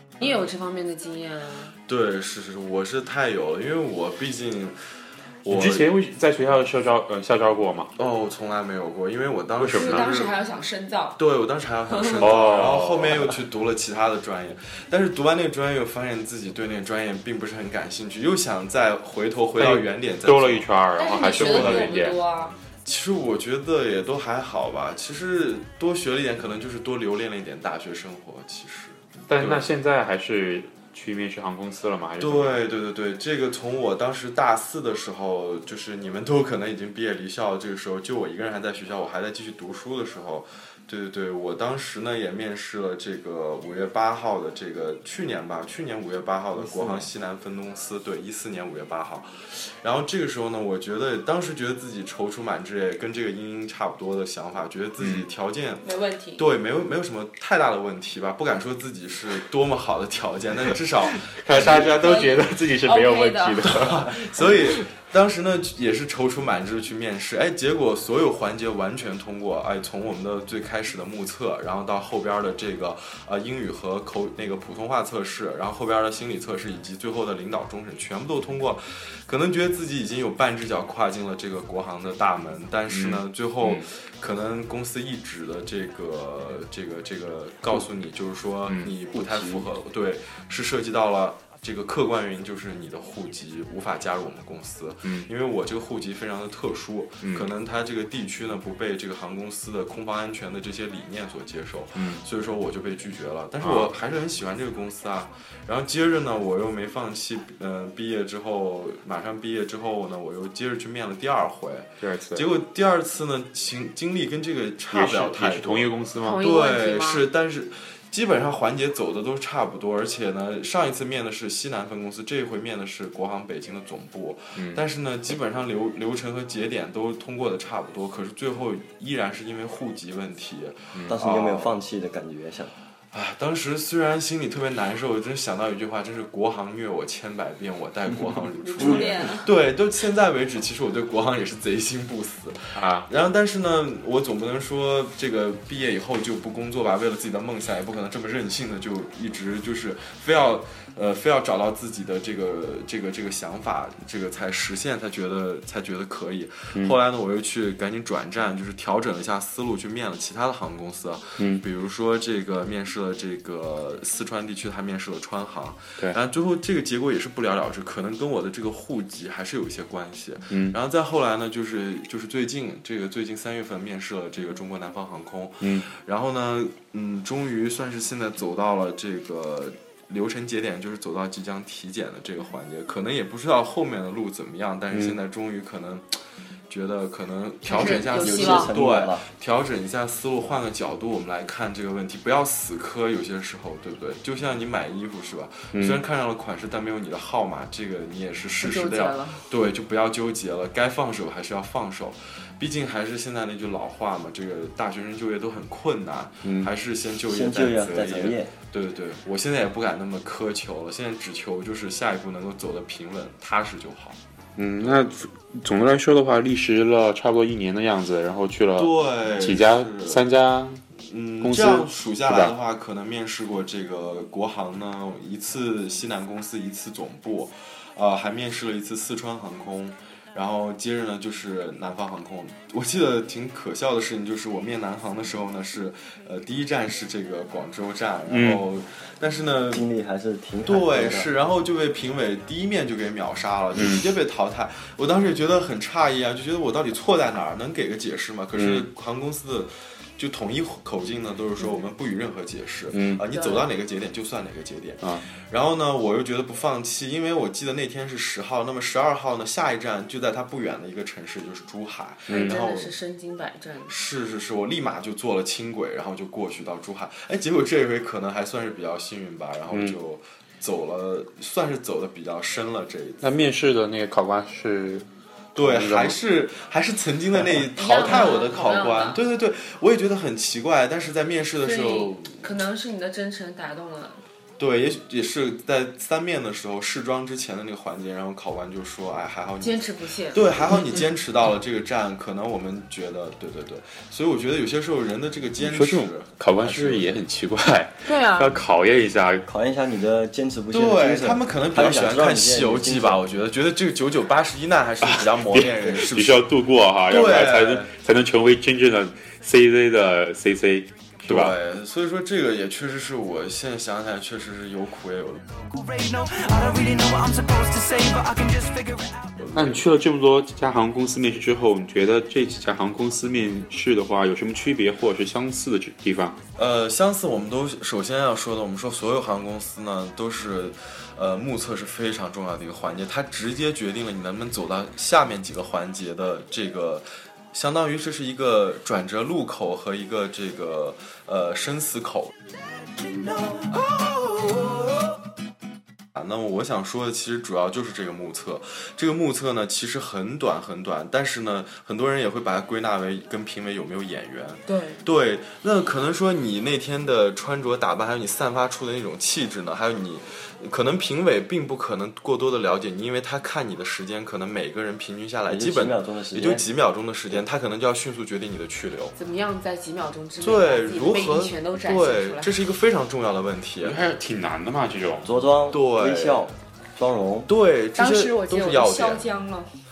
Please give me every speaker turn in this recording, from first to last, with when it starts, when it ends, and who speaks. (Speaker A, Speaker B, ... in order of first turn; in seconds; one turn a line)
Speaker A: 0.2-1.7
Speaker B: 1.9-4.8
Speaker B: 5.4-5.9
Speaker C: 5.5-7.9
Speaker B: 8.0-10.3
Speaker C: 9.6-10.1
Speaker A: 9.7-11.2
Speaker B: 11.2-22.0
Speaker A: 11.9-12.4
Speaker C: 12.2-13.3
Speaker C: 19.6-22.1
Speaker A: 20.9-22.6
Speaker B: 22.8-29.7
Speaker C: 29.3-32.6
Speaker B: 32.2-55.9
Speaker C: 46.7-47.0
Speaker C: 55.0-55.2
Speaker A: 55.8-56.4
Speaker B: 56.4-62.0
Speaker C: 61.1-64.7
Speaker A: 61.6-64.1
Speaker B: 63.8-131.7
Speaker C: 82.9-83.8
Speaker C: 88.7-88.9
Speaker D: 89.1-89.7
Speaker C: 97.2-97.5
Speaker C: 101.9-102.2
Speaker C: 103.6-103.9
Speaker C: 112.0-112.5
Speaker C: 114.9-116.4
Speaker A: 116.2-117.3
Speaker C: 124.5-124.8
Speaker D: 131.1-132.7
Speaker B: 133.1-186.1
Speaker A: 138.6-139.5
Speaker C: 142.7-143.1
Speaker C: 161.4-161.6
Speaker C: 170.5-170.8
Speaker C: 175.6-175.9
Speaker C: 184.9-185.2
Speaker B: 186.7-214.2
Speaker A: 187.6-188.7
Speaker D: 187.8-189.3
Speaker C: 195.7-196.0
Speaker A: 198.6-199.4
Speaker C: 206.4-206.7
Speaker D: 207.3-208.5
Speaker C: 214.6-220.8
Speaker B: 214.8-215.2
Speaker B: 218.8-220.2
Speaker B: 221.0-239.8
Speaker C: 221.4-222.5
Speaker C: 238.3-238.6
Speaker D: 239.7-241.3
Speaker B: 240.6-262.9
Speaker C: 243.7-244.0
Speaker C: 248.5-248.9
Speaker C: 252.9-253.2
Speaker A: 253.3-253.7
Speaker C: 255.0-255.2
Speaker C: 262.3-262.6
Speaker A: 262.3-263.9
Speaker B: 263.9-273.3
Speaker C: 269.7-270.0
Speaker C: 273.2-276.2
Speaker B: 275.6-282.5
Speaker A: 277.8-279.2
Speaker A: 281.6-284.2
Speaker B: 284.6-297.2
Speaker A: 289.6-291.1
Speaker C: 295.6-299.4
Speaker A: 298.0-298.6
Speaker D: 299.5-303.2
Speaker B: 300.7-306.5
Speaker C: 305.0-311.5
Speaker B: 307.1-307.9
Speaker B: 311.2-315.4
Speaker E: 315.8-319.0
Speaker C: 319.5-326.4
Speaker B: 326.6-342.3
Speaker B: 346.1-369.1
Speaker A: 354.7-355.0
Speaker D: 365.5-366.7
Speaker A: 369.1-372.6
Speaker B: 370.4-374.0
Speaker C: 373.8-375.3
Speaker D: 375.2-377.5
Speaker B: 375.7-376.4
Speaker B: 377.4-379.3
Speaker A: 377.9-379.7